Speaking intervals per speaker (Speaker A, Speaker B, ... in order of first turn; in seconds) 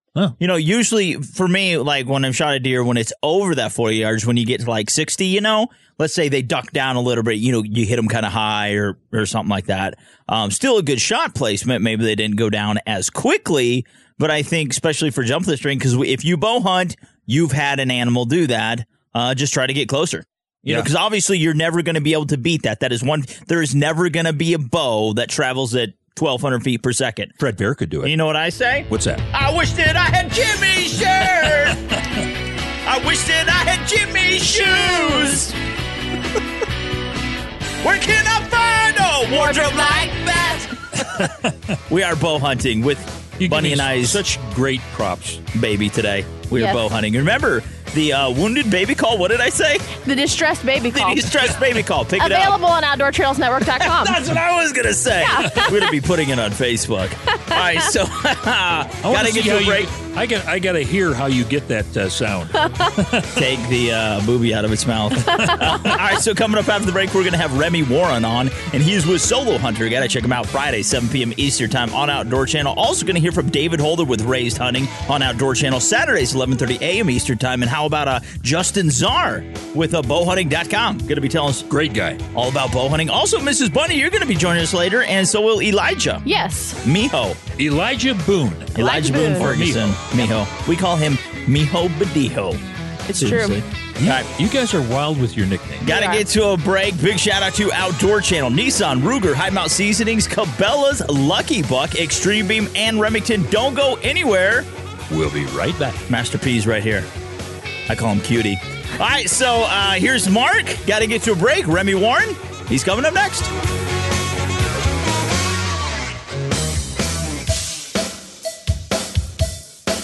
Speaker A: 0.4-27.4, 28.0-31.8, 32.9-35.5, 37.8-40.7, 41.9-44.2, 45.5-49.9, 50.9-52.6, 53.8-59.9, 63.4-81.7, 82.3-86.2, 86.8-87.4, 88.8-92.6, 93.2-94.3, 95.8-104.7, 106.1-107.1, 107.9-113.5
Speaker B: 27.4-28.1, 28.9-29.2, 41.1-41.5, 43.4-45.4, 59.0-63.3, 65.4-65.9, 81.7-82.2, 87.6-88.7, 89.3-90.0, 94.0-95.8, 105.1-106.0
Speaker C: 34.5-35.4, 39.3-40.2, 46.6-46.9, 50.0-51.4, 52.2-54.2, 55.2-55.8, 57.5-57.8, 86.2-86.8, 88.8-89.5, 93.1-93.6, 95.8-96.2